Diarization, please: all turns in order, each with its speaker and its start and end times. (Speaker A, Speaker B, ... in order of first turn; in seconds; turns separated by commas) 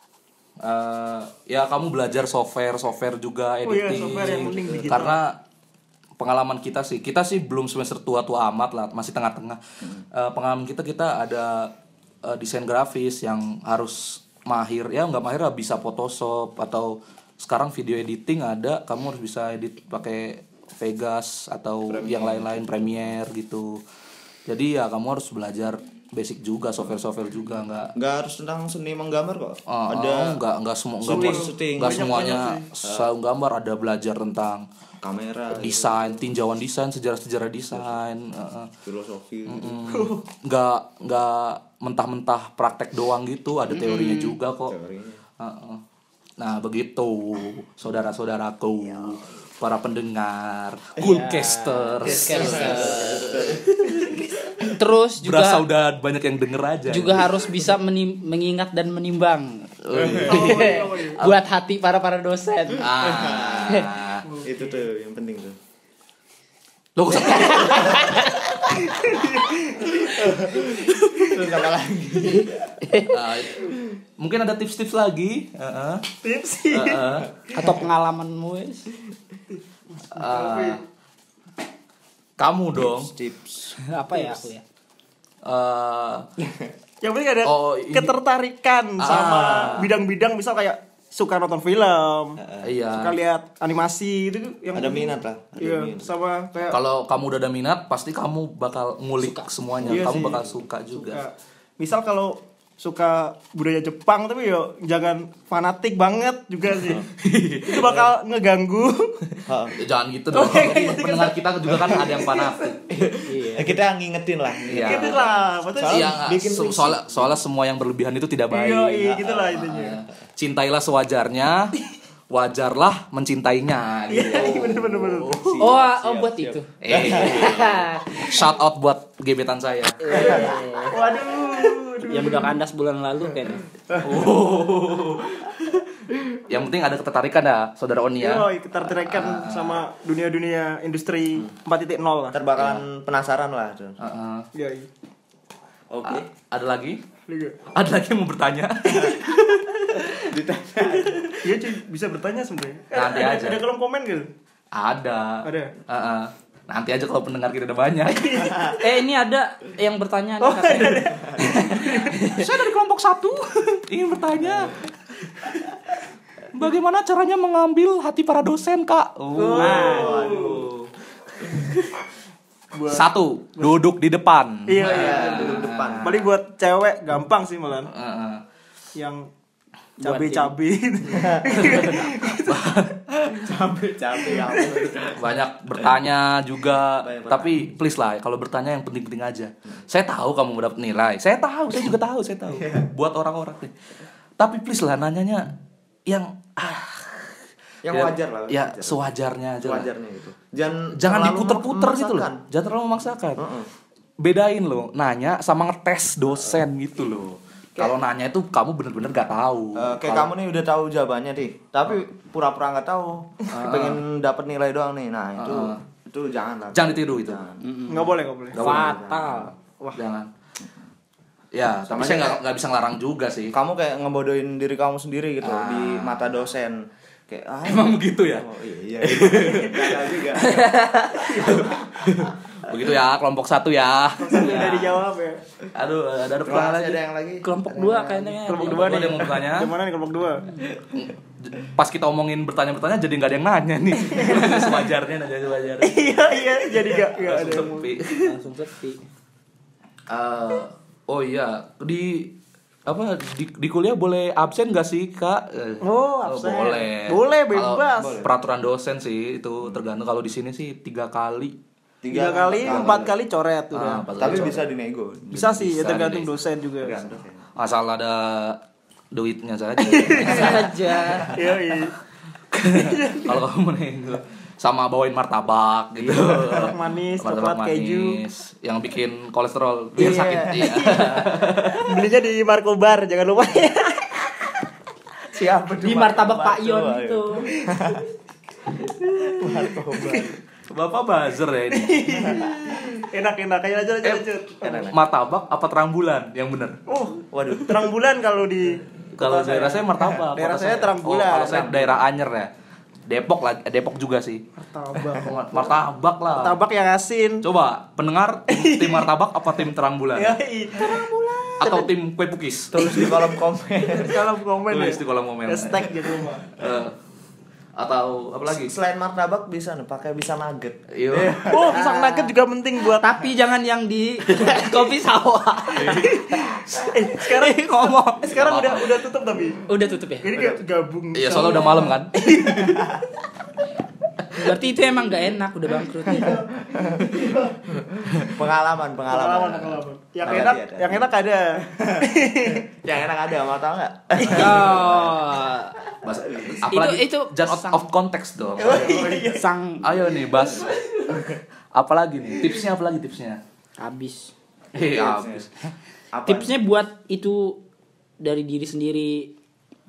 Speaker A: 0.6-5.4, Speaker B: 3.6-5.2, Speaker C: 3.9-5.1, Speaker A: 6.2-11.7, Speaker A: 12.2-23.8, Speaker C: 21.9-23.1, Speaker A: 24.5-27.9, Speaker C: 27.9-30.4, Speaker A: 29.7-34.6, Speaker C: 31.0-32.2, Speaker B: 31.1-32.6, Speaker C: 32.8-33.1, Speaker C: 35.0-36.3, Speaker A: 35.5-38.7, Speaker C: 37.7-38.0, Speaker C: 38.8-39.8, Speaker A: 39.5-44.7, Speaker B: 39.9-40.2, Speaker D: 43.7-44.3, Speaker C: 44.7-45.2, Speaker A: 45.4-45.8, Speaker A: 46.4-54.2, Speaker D: 51.0-53.3, Speaker C: 52.1-53.8, Speaker D: 54.6-55.6, Speaker A: 55.2-57.4, Speaker D: 56.9-59.7, Speaker A: 59.8-61.4, Speaker C: 59.9-60.5, Speaker B: 60.2-61.2, Speaker D: 60.3-62.9, Speaker A: 62.8-64.2, Speaker C: 62.9-63.9, Speaker B: 64.2-64.8, Speaker C: 64.4-65.6, Speaker A: 67.0-68.3, Speaker D: 67.2-68.3, Speaker C: 67.9-68.3, Speaker B: 68.8-70.1, Speaker C: 70.1-72.6, Speaker D: 72.8-73.1, Speaker A: 73.1-76.0, Speaker B: 76.2-77.0, Speaker A: 76.7-77.3, Speaker D: 77.5-78.9, Speaker B: 80.1-80.8, Speaker A: 80.1-80.8, Speaker A: 82.4-83.1, Speaker C: 82.7-83.8, Speaker D: 83.9-84.6, Speaker A: 85.4-86.2, Speaker C: 86.4-86.7, Speaker B: 87.0-92.4, Speaker A: 87.4-88.1, Speaker A: 89.0-89.9, Speaker C: 92.4-92.7, Speaker A: 92.6-93.2, Speaker B: 92.9-96.8, Speaker C: 94.7-96.1, Speaker A: 96.7-101.2, Speaker D: 99.2-99.5, Speaker C: 99.8-100.5, Speaker B: 99.8-107.0, Speaker A: 106.9-108.1, Speaker B: 107.7-109.1, Speaker C: 109.5-109.8, Speaker A: 109.8-113.3, Speaker B: 110.3-112.7, Speaker C: 112.9-117.4, Speaker D: 113.3-113.7, Speaker A: 114.7-115.2, Speaker B: 114.8-116.1, Speaker A: 115.9-121.8, Speaker B: 118.5-120.0, Speaker A: 122.3-125.6, Speaker B: 124.1-125.3, Speaker C: 124.4-127.7, Speaker D: 125.6-128.3, Speaker A: 126.8-130.2, Speaker D: 130.0-130.9, Speaker B: 130.1-132.5, Speaker D: 132.1-133.6, Speaker A: 134.0-135.8, Speaker A: 136.4-139.8, Speaker B: 138.2-142.4, Speaker C: 142.3-144.0, Speaker A: 142.6-142.8, Speaker A: 144.0-144.5, Speaker B: 144.5-144.9, Speaker C: 145.9-146.3, Speaker A: 146.0-147.0, Speaker B: 147.3-147.6, Speaker A: 147.7-150.2, Speaker C: 150.3-151.4, Speaker B: 151.4-154.3, Speaker A: 152.9-153.6, Speaker A: 154.7-158.5, Speaker B: 155.4-155.7, Speaker B: 158.0-158.7, Speaker D: 158.8-162.5, Speaker B: 160.4-162.2, Speaker A: 162.3-165.6, Speaker A: 166.5-170.5, Speaker B: 169.4-170.7, Speaker C: 169.5-170.7, Speaker D: 169.5-170.2, Speaker A: 171.5-171.8, Speaker B: 172.7-173.8, Speaker A: 172.9-176.2, Speaker B: 174.7-177.9, Speaker C: 174.8-176.3, Speaker A: 177.9-178.4, Speaker B: 178.9-179.3, Speaker B: 180.0-182.7, Speaker D: 180.0-180.5, Speaker C: 181.1-181.9, Speaker A: 181.6-183.0, Speaker C: 183.4-185.2, Speaker B: 184.2-185.1, Speaker A: 185.2-193.7, Speaker C: 187.0-187.6, Speaker C: 192.5-192.9, Speaker A: 194.4-195.5, Speaker A: 196.1-197.3, Speaker C: 197.8-202.4, Speaker A: 197.9-199.9, Speaker A: 201.0-203.4, Speaker C: 203.4-203.7, Speaker A: 204.2-210.3, Speaker C: 209.8-217.6, Speaker A: 213.5-214.0, Speaker A: 215.4-215.8, Speaker A: 216.7-217.4, Speaker D: 217.6-219.5, Speaker B: 217.9-218.6, Speaker A: 218.5-219.1, Speaker C: 218.6-219.5, Speaker A: 219.9-220.3, Speaker A: 221.5-223.5, Speaker C: 221.9-222.4, Speaker C: 223.5-230.7, Speaker A: 225.4-226.3, Speaker A: 227.6-228.5, Speaker A: 229.0-230.4, Speaker D: 230.4-231.3, Speaker B: 231.3-231.7, Speaker A: 231.4-234.9, Speaker B: 234.2-235.4, Speaker C: 234.4-235.0, Speaker A: 235.7-237.0, Speaker C: 236.4-238.5, Speaker D: 237.4-239.0, Speaker B: 238.5-240.4, Speaker A: 238.5-239.7, Speaker A: 240.9-246.2, Speaker B: 244.0-244.8, Speaker B: 245.8-247.9, Speaker A: 247.0-248.3, Speaker D: 248.2-249.0, Speaker A: 250.1-252.3, Speaker A: 252.8-261.5, Speaker B: 255.8-258.2, Speaker C: 258.0-258.3, Speaker C: 262.0-263.1, Speaker B: 262.1-264.5, Speaker A: 262.6-263.1, Speaker A: 263.7-264.7, Speaker C: 264.2-265.7, Speaker B: 265.3-267.0, Speaker A: 265.6-266.3, Speaker C: 266.8-267.4, Speaker A: 267.6-268.6, Speaker A: 269.1-271.5, Speaker B: 269.8-271.9, Speaker D: 270.2-271.3, Speaker A: 272.5-282.0, Speaker B: 272.6-273.4, Speaker C: 276.0-276.7, Speaker B: 276.5-278.2, Speaker B: 280.0-284.3, Speaker C: 285.3-288.1, Speaker D: 285.8-287.5, Speaker C: 289.4-290.4, Speaker B: 289.4-290.3, Speaker A: 290.7-292.4, Speaker B: 291.7-294.9, Speaker C: 292.1-292.6, Speaker C: 294.6-294.9, Speaker A: 294.9-296.8, Speaker B: 296.9-301.9, Speaker C: 297.3-297.8, Speaker A: 299.1-302.5, Speaker A: 303.1-304.4, Speaker B: 304.6-305.7, Speaker A: 304.9-306.6, Speaker B: 306.4-307.4, Speaker A: 307.4-310.4, Speaker B: 308.5-309.1, Speaker B: 310.1-311.9, Speaker A: 311.6-313.3, Speaker C: 312.7-314.2, Speaker B: 313.9-316.6, Speaker A: 314.7-316.9, Speaker A: 317.8-318.7, Speaker C: 318.4-321.6, Speaker A: 320.9-321.8, Speaker B: 321.4-323.1, Speaker D: 321.7-322.3, Speaker D: 322.9-326.4, Speaker A: 324.3-324.7, Speaker A: 325.7-329.0, Speaker B: 325.9-329.6, Speaker D: 329.7-330.3, Speaker B: 330.2-332.9, Speaker C: 330.3-330.6, Speaker A: 331.1-332.8, Speaker D: 334.3-336.4, Speaker B: 336.1-336.4, Speaker C: 336.7-337.0, Speaker B: 337.2-337.4, Speaker C: 338.1-341.1, Speaker B: 339.1-342.6, Speaker C: 341.6-345.0, Speaker B: 344.2-344.5, Speaker D: 344.2-345.8, Speaker A: 344.3-345.1, Speaker A: 346.0-349.2, Speaker C: 346.2-346.6, Speaker D: 346.7-347.9, Speaker B: 348.6-349.5, Speaker C: 348.6-349.2, Speaker D: 349.2-349.9, Speaker A: 349.8-353.4, Speaker D: 353.8-354.3, Speaker A: 354.7-355.5, Speaker C: 354.8-355.5, Speaker C: 356.1-356.6, Speaker D: 356.3-357.6, Speaker D: 358.2-359.3